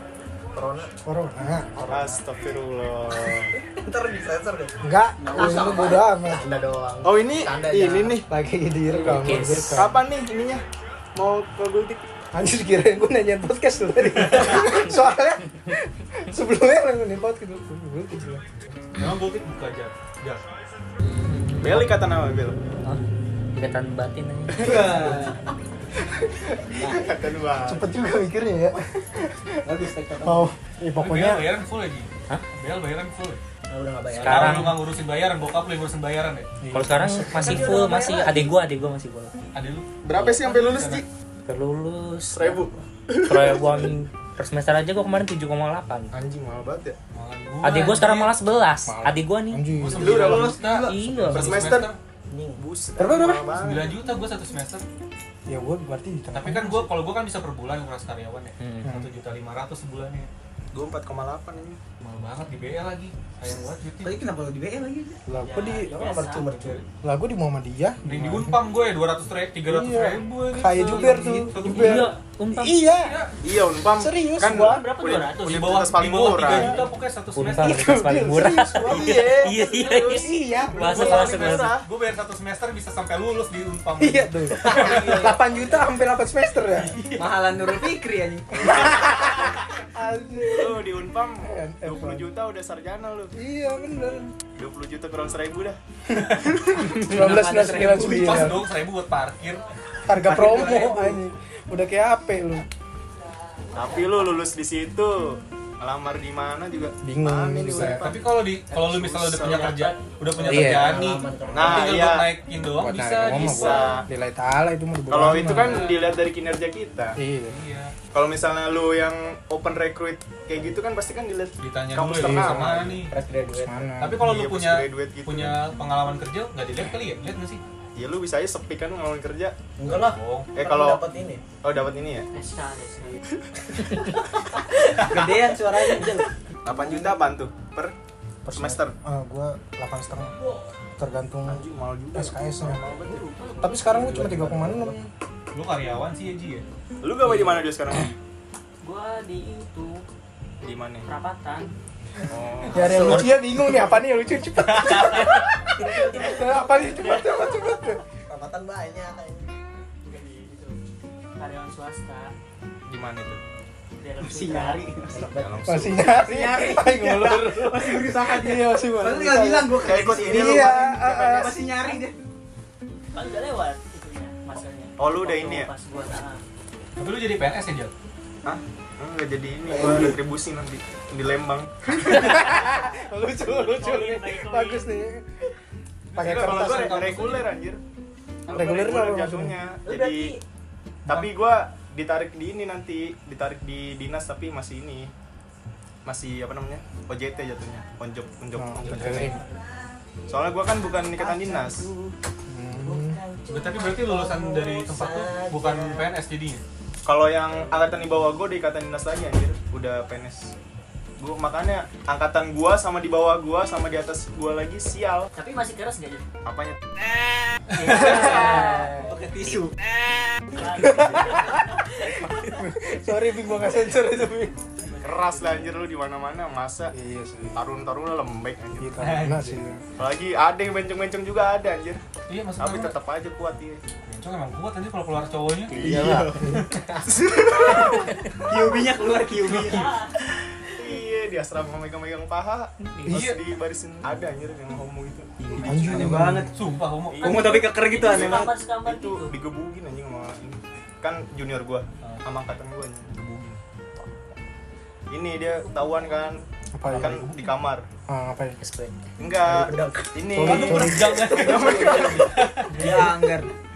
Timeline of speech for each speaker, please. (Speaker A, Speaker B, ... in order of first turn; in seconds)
Speaker A: 0.6-0.9, 3.8-4.8, 5.4-8.2, 33.7-34.7, 52.3-52.6, 65.9-66.8, 110.4-112.0, 122.9-123.9, 129.8-131.4, 144.1-144.8, 158.3-159.5, 165.1-165.9, 202.9-206.0, 235.8-236.4, 259.4-260.3
Speaker B: 1.1-2.2, 4.8-6.4, 8.2-9.9, 12.3-18.4, 27.6-29.6, 30.2-31.5, 36.6-37.7, 48.9-50.5, 53.0-53.5, 55.5-56.9, 65.3-66.1, 67.0-68.6, 69.7-73.2, 74.0-74.8, 76.4-76.8, 77.6-79.5, 80.1-81.2, 84.0-87.0, 88.7-90.8, 91.4-92.3, 93.3-94.3, 96.1-98.7, 100.1-102.7, 107.0-108.0, 110.5-110.9, 112.8-115.9, 117.2-117.6, 122.2-122.8, 123.6-124.3, 138.4-140.3, 141.0-142.8, 143.6-145.1, 152.7-158.0, 165.7-171.6, 182.1-185.2, 186.2-187.0, 188.5-189.6, 198.6-199.4, 202.5-203.2, 220.8-221.6, 222.4-224.6, 226.9-227.6, 228.8-229.8, 236.3-236.7, 245.5-246.5, 256.8-257.3, 258.1-258.6, 260.3-261.2
Speaker C: 1.9-3.5, 7.0-8.2, 9.7-10.6, 11.2-12.0, 21.6-22.6, 24.6-24.9, 26.7-27.9, 40.0-41.1, 42.3-44.0, 46.1-47.0, 50.0-51.9, 52.6-54.0, 60.7-61.8, 73.4-76.8, 78.8-81.9, 88.5-89.5, 90.5-93.3, 94.6-95.8, 103.7-109.8, 111.5-112.3, 113.4-114.0, 115.1-117.2, 118.1-122.9, 124.2-125.6, 128.0-129.6, 130.5-132.3, 136.7-137.9, 138.5-138.9, 141.5-143.9, 147.0-148.1, 150.6-151.1, 152.3-153.2, 162.9-163.4, 165.1-166.2, 169.7-171.3, 175.0-175.7, 178.4-182.4, 186.2-187.8, 188.5-190.4, 191.1-195.1, 196.1-199.3, 200.3-201.9, 207.1-210.5, 211.2-215.3, 216.4-216.8, 217.9-218.6, 225.0-226.9, 227.5-229.1, 230.0-232.0, 232.6-233.8, 235.7-236.2, 237.0-238.2, 240.8-246.4, 247.1-253.2, 255.1-257.9, 259.2-262.5
Speaker D: 5.2-6.1, 8.9-9.3, 24.6-25.4, 29.6-30.5, 64.0-65.2, 84.8-85.4, 87.2-89.0, 97.2-98.4, 135.0-136.3, 164.2-165.3, 166.1-172.2, 218.0-219.8, 235.9-236.3, 237.6-240.0, 245.9-246.5, 247.2-248.5, 260.9-263.5
Speaker E: 9.0-9.8, 21.2-21.9, 23.5-24.8, 34.2-34.8, 36.7-39.3, 41.5-42.6, 43.2-46.1, 47.6-49.7, 50.8-51.7, 58.6-58.9, 71.6-72.9, 77.4-81.7, 110.5-110.9, 242.9-243.2, 258.6-258.9
Speaker F: 19.0-20.4, 31.0-33.4, 34.2-36.5, 39.5-41.0, 47.1-48.3, 49.8-52.0, 53.5-54.8, 56.3-60.3, 62.0-64.2, 68.0-72.1, 73.0-73.4, 75.0-77.9, 80.8-85.3, 86.7-87.4, 97.9-99.7, 100.3-101.1, 107.7-113.9, 117.5-118.0, 121.6-123.2, 124.0-127.6, 129.8-130.5, 135.0-135.4, 145.5-146.7, 154.6-155.5, 177.0-177.9, 186.1-187.5, 191.1-191.3, 198.8-199.4, 203.5-206.6, 229.0-229.6, 232.3-233.0, 234.1-235.8, 239.4-239.9, 243.1-243.4, 245.8-247.6, 253.2-253.6, 256.9-257.5, 260.4-263.2
Speaker G: 65.4-66.6, 74.6-75.9, 103.7-104.3, 109.6-110.2, 132.3-133.2, 140.3-140.7, 143.2-144.0, 148.8-150.1, 151.1-151.7, 155.8-157.3, 160.0-160.8, 161.4-162.3, 164.0-164.9, 173.1-176.4, 183.4-184.9, 189.8-190.4, 215.3-216.3, 217.7-219.1, 220.6-222.3, 224.8-225.8, 239.7-240.2, 247.3-249.4, 255.7-256.1